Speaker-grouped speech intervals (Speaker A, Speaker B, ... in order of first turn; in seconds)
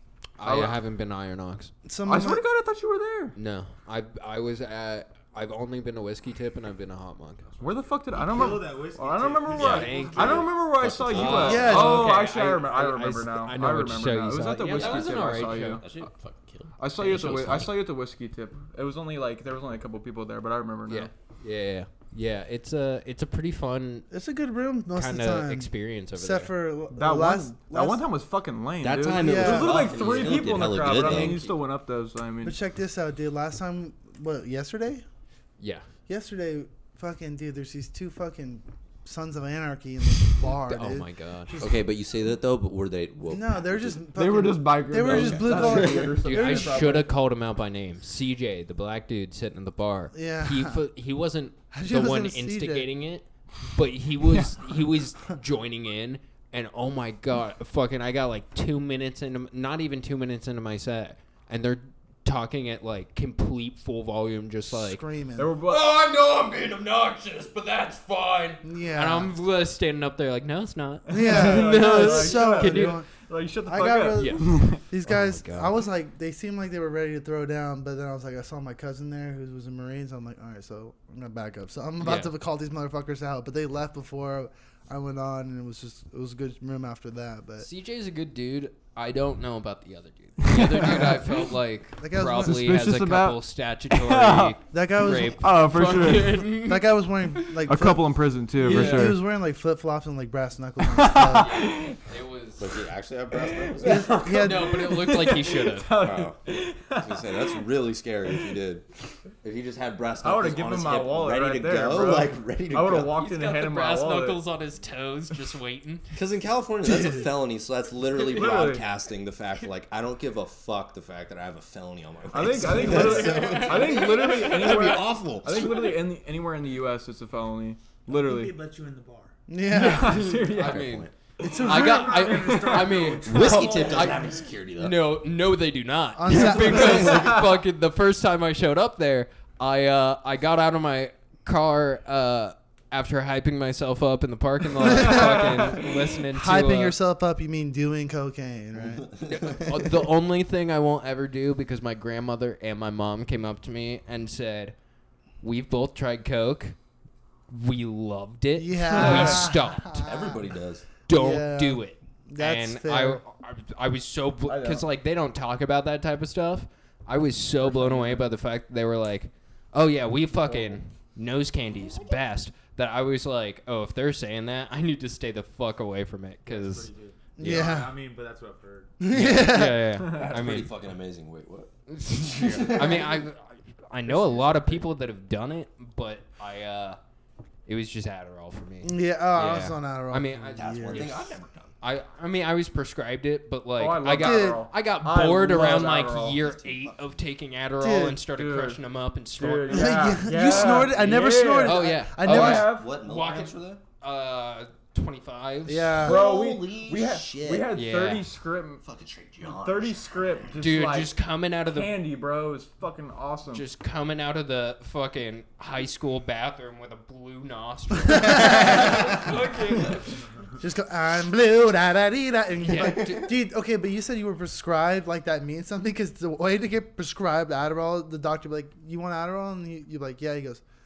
Speaker A: 0.4-1.7, 3.4-7.5, 9.5-15.8, 17.0-17.7, 20.9-24.1, 24.9-26.5, 30.9-31.5, 35.6-35.9, 40.5-41.6, 46.2-65.0, 65.6-73.0, 74.1-75.8, 82.0-82.3, 87.6-97.5, 98.6-99.2, 101.3-102.8, 104.4-106.1, 113.0-116.0, 122.7-124.9, 129.8-146.9, 149.3-154.8, 155.4-156.8, 157.5-160.0, 161.1-177.7, 179.1-180.7, 181.9-187.0, 187.7-191.3, 191.8-200.2, 201.6-206.0, 207.7-208.3, 210.6-212.0, 213.5-220.3, 222.6-223.3
Speaker B: 0.4-0.8, 2.1-3.4, 7.6-16.1, 16.8-21.1, 26.9-32.5, 44.1-47.1, 65.4-65.8, 71.1-74.8, 90.5-91.1, 92.4-93.4, 93.9-96.5, 97.7-99.2, 100.8-102.0, 103.4-107.6, 110.2-114.4, 118.2-118.8, 122.3-128.6, 129.7-130.9, 131.5-133.8, 136.9-137.4, 144.9-145.9, 158.9-159.5, 164.5-164.8, 167.7-168.2, 180.0-180.3, 193.8-196.4, 198.3-198.8, 199.4-202.9, 206.0-208.8, 209.5-211.1, 211.7-213.6
Speaker C: 1.9-2.4, 11.4-12.2, 24.1-28.0, 29.1-29.9, 32.4-35.0, 36.1-41.8, 43.3-47.0, 50.1-50.8, 51.7-52.9, 64.7-65.5, 68.6-69.3, 71.1-73.1, 73.6-87.7, 90.8-91.2, 92.0-92.7, 94.7-95.4, 96.4-101.7, 103.8-104.8, 129.5-130.2, 131.4-132.4, 136.2-137.3, 144.8-149.1, 158.5-160.4, 161.1-163.2, 177.4-177.9, 179.0-179.9, 188.8-191.1, 194.2-194.6, 197.8-198.2, 199.7-202.7, 205.7-206.2, 218.1-218.9, 220.6-230.6
Speaker D: 8.1-10.5, 128.1-129.3, 131.4-134.4, 176.5-178.9
Speaker E: 10.2-11.8, 14.7-16.7, 28.8-31.5, 41.6-44.0, 45.0-46.1, 102.6-104.2, 106.0-108.9, 109.4-113.1, 116.1-126.0, 130.4-131.1, 133.2-135.1, 136.6-137.3, 148.8-149.9, 159.9-160.9, 180.0-183.3, 190.5-191.7, 196.3-197.1, 202.2-203.8, 206.0-207.7, 208.8-210.1, 218.4-219.3, 222.8-223.2